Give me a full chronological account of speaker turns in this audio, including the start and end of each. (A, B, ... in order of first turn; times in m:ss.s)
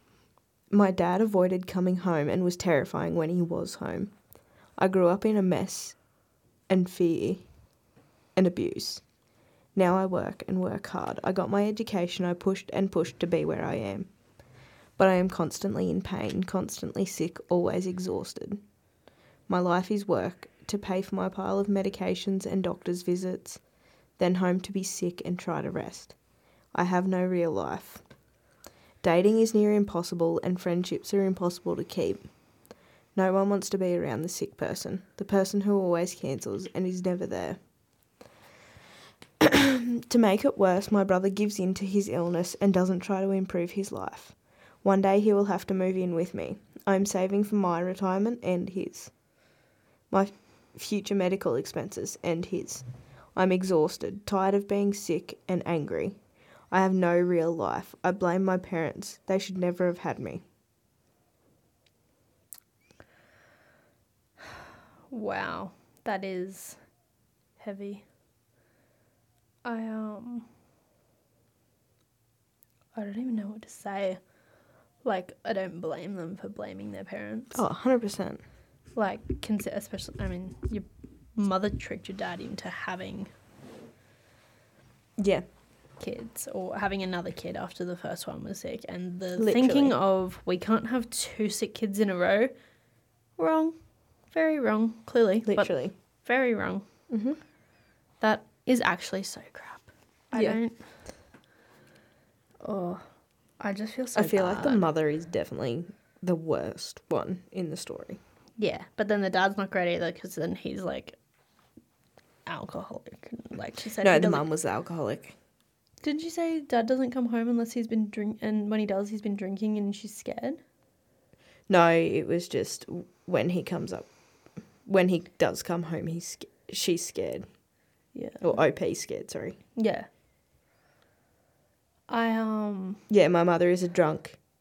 0:00.7-0:04.1 A
0:04.8-0:06.0 A
0:06.7-0:07.5 A
0:08.3-0:09.0 A
0:09.7-0:14.1 A
0:15.0-0:18.6 A
0:19.5-0:23.6 A
0:24.2-0:26.2 A
0:26.7-0:28.0 A
0:29.0-0:32.3 A
0:33.1-0:37.6 A
0:39.4-0:49.1 A
0:50.1-0:56.2 A
0:56.7-1:00.4 A
1:05.1-1:06.8 B
1:07.6-1:08.0 B
1:09.6-1:10.5 B
1:12.9-1:14.2 B
1:15.0-1:17.6 B
1:17.5-1:18.4 A
1:18.9-1:23.3 B
1:25.2-1:25.4 A
1:26.0-1:32.5 B
1:29.4-1:30.0 A
1:33.4-1:33.7 B
1:34.3-1:36.8 B
1:35.4-1:35.9 A
1:37.1-1:37.4 A
1:38.2-1:40.8 B
1:40.3-1:40.6 A
1:42.6-1:43.0 B
1:43.6-1:44.8 B
1:44.1-1:48.2 A
1:48.6-1:51.2 B
1:52.5-1:54.4 B
1:54.0-1:55.4 A
1:56.0-2:00.6 B
2:01.7-2:04.1 A
2:04.8-2:07.4 A
2:08.1-2:08.6 B
2:08.4-2:09.6 A
2:09.8-2:10.1 B
2:12.1-2:13.0 B
2:13.1-2:14.4 A